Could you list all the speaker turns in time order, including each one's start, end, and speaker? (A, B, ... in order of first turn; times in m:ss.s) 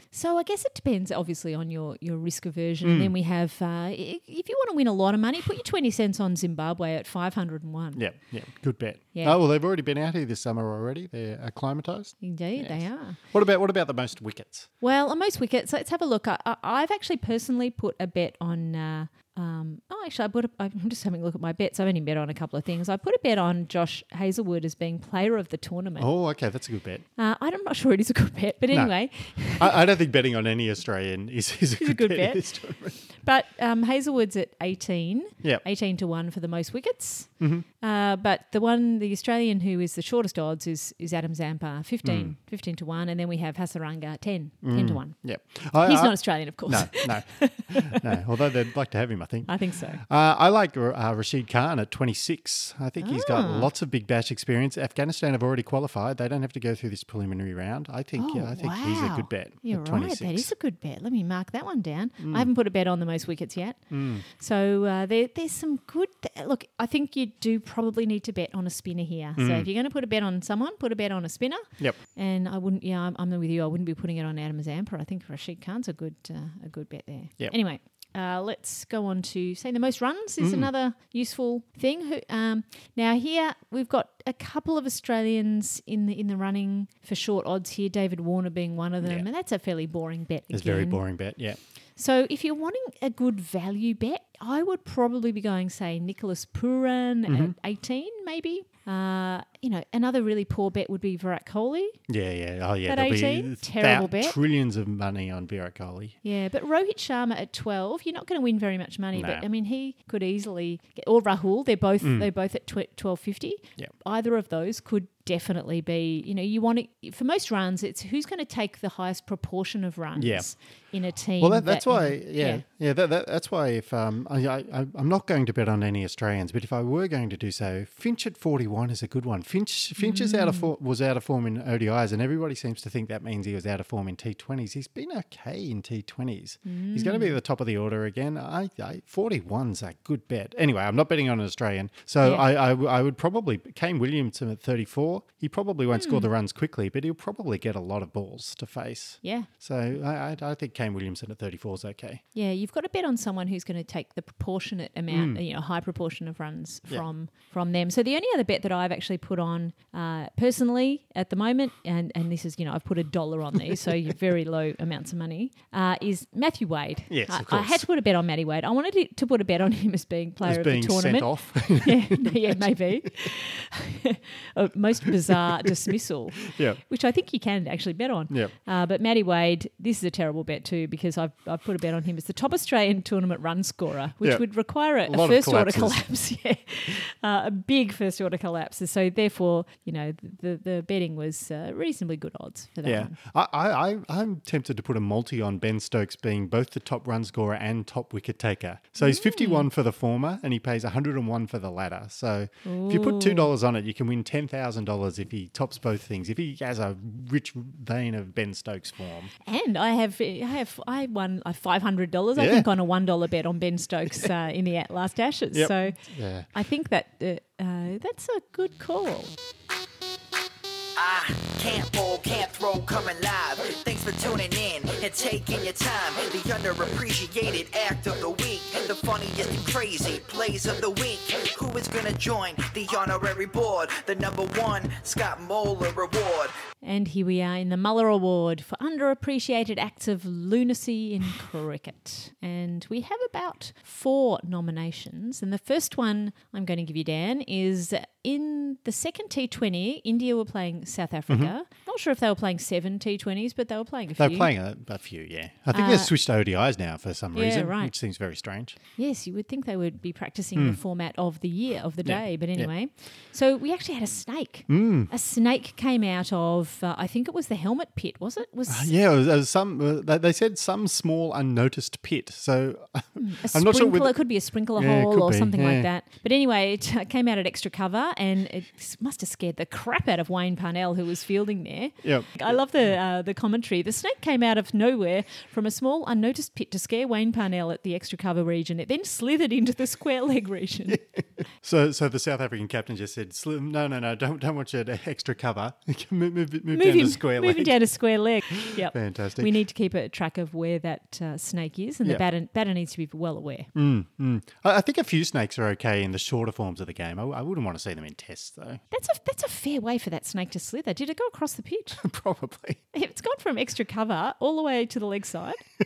0:00.1-0:08.4 A
0:02.8-0:03.1 B
0:08.0-0:14.7 B
0:12.2-0:13.2 A
0:14.8-0:26.1 A
0:26.0-0:27.1 B
0:27.2-0:29.7 A
0:28.7-0:33.0 B
0:31.8-0:47.8 A
0:37.4-0:37.7 B
0:42.0-0:42.4 B
0:44.6-1:00.5 B
0:49.5-0:50.0 A
0:53.0-0:53.7 A
0:58.2-1:42.0 A
1:02.2-1:02.5 B
1:03.9-1:04.2 B
1:09.4-1:09.7 B
1:20.4-1:20.7 B
1:30.5-1:31.6 B
1:37.3-1:37.6 B
1:42.1-1:46.2 B
1:42.9-1:44.4 A
1:46.2-2:02.6 A
1:49.1-1:49.4 B
1:52.0-1:52.3 B
2:00.2-2:32.2 B
2:10.0-2:10.7 A
2:16.7-2:17.4 A
2:25.9-2:26.3 A
2:29.2-2:29.5 A
2:32.3-3:13.2 A
2:35.1-2:35.4 B
2:47.1-2:47.9 B
2:50.4-2:52.4 B
2:56.5-2:56.8 B
2:58.3-2:58.5 B
3:04.2-3:06.1 B
3:12.8-3:29.3 B
3:19.0-3:19.7 A
3:22.6-3:23.5 A
3:29.4-3:39.3 A
3:32.4-3:32.7 B
3:35.5-3:36.5 B
3:41.0-3:56.5 C
3:56.8-4:14.5 A
4:11.3-4:11.5 B
4:14.2-4:18.8 B
4:15.7-4:16.1 A
4:17.3-4:18.0 A
4:19.0-4:28.9 A
4:22.0-4:22.8 B
4:24.7-4:25.1 B
4:28.7-4:35.9 B
4:33.2-4:51.0 A
4:42.0-4:43.0 B
4:50.9-4:59.5 B
4:56.7-5:03.7 A
5:03.7-5:08.8 B
5:08.9-5:12.0 A
5:12.0-5:12.8 B
5:12.9-5:15.7 A